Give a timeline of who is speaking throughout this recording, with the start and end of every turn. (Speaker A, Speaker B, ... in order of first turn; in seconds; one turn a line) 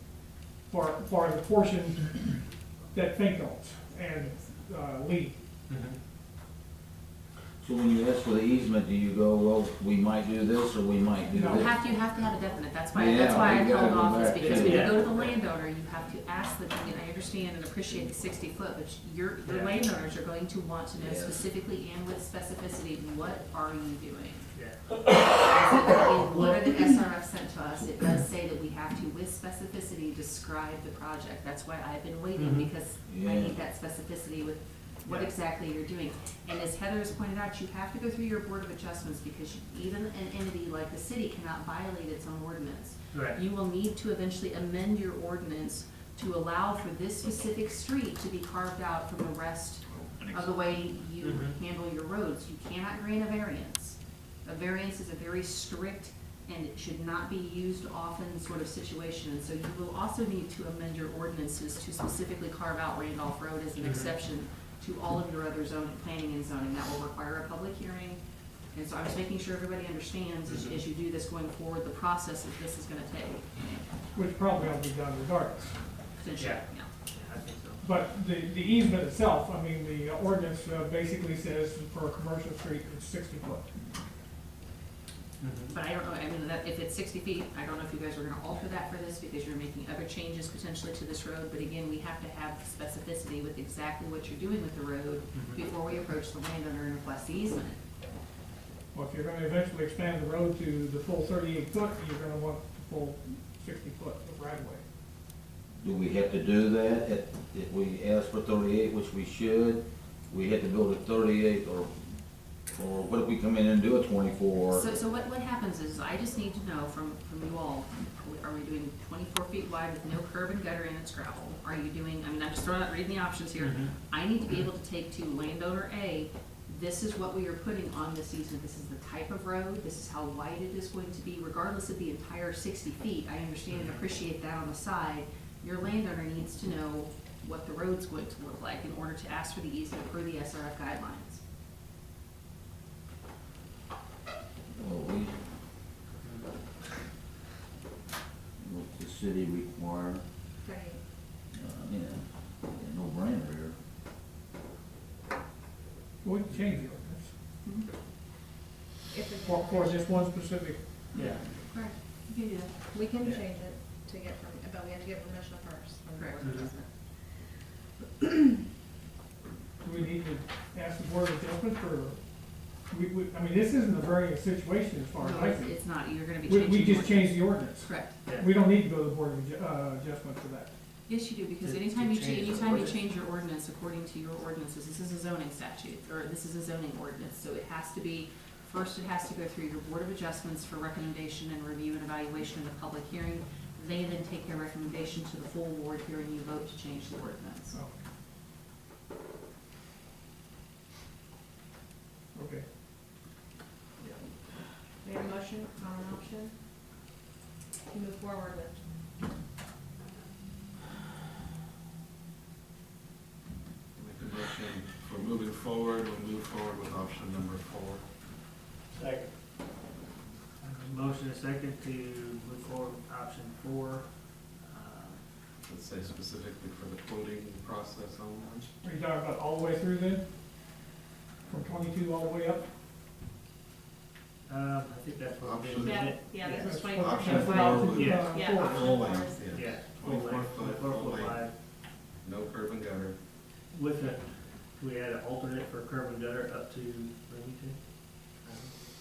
Speaker A: 0.7-5.3
Speaker B: 5.7-6.0
Speaker C: 7.6-11.8
Speaker A: 11.3-11.7
Speaker D: 11.5-68.2
Speaker C: 12.9-15.1
Speaker B: 14.4-15.4
Speaker B: 19.4-19.8
Speaker C: 20.9-21.4
Speaker B: 24.5-25.0
Speaker B: 32.3-32.7
Speaker C: 33.1-33.5
Speaker B: 43.1-43.4
Speaker C: 49.9-50.5
Speaker B: 51.2-51.6
Speaker B: 63.8-64.1
Speaker D: 68.7-73.5
Speaker B: 70.5-70.8
Speaker A: 74.1-75.8
Speaker D: 76.2-76.9
Speaker B: 76.4-77.8
Speaker A: 77.8-83.7
Speaker B: 85.4-85.7
Speaker D: 85.7-97.8
Speaker B: 95.3-95.6
Speaker A: 98.9-104.8
Speaker C: 105.8-111.9
Speaker C: 112.7-114.9
Speaker D: 114.7-141.4
Speaker B: 123.6-123.9
Speaker B: 133.7-134.0
Speaker C: 144.7-145.3
Speaker B: 146.2-146.5
Speaker C: 148.6-150.2
Speaker E: 150.6-151.0
Speaker C: 151.5-153.8
Speaker A: 156.2-157.3
Speaker B: 156.5-156.8
Speaker E: 159.1-160.2
Speaker A: 159.4-160.8
Speaker B: 161.1-161.4
Speaker D: 161.1-162.8
Speaker E: 162.9-166.9
Speaker D: 166.1-166.4
Speaker B: 166.4-166.7
Speaker A: 169.8-172.2
Speaker A: 172.8-175.8
Speaker D: 175.2-178.2
Speaker A: 176.4-180.7
Speaker D: 181.1-197.8
Speaker B: 181.6-183.0
Speaker A: 202.3-202.7
Speaker E: 205.0-206.6
Speaker E: 207.9-208.8
Speaker F: 213.9-218.0
Speaker B: 218.9-219.3
Speaker B: 220.6-225.2
Speaker F: 225.6-228.7
Speaker A: 228.8-230.2
Speaker A: 231.5-232.7
Speaker B: 234.4-236.8
Speaker F: 235.4-236.3
Speaker E: 235.8-239.8
Speaker A: 236.6-239.0
Speaker F: 236.9-241.5
Speaker B: 237.8-238.3
Speaker B: 239.5-241.5
Speaker F: 242.2-243.2
Speaker B: 243.7-248.7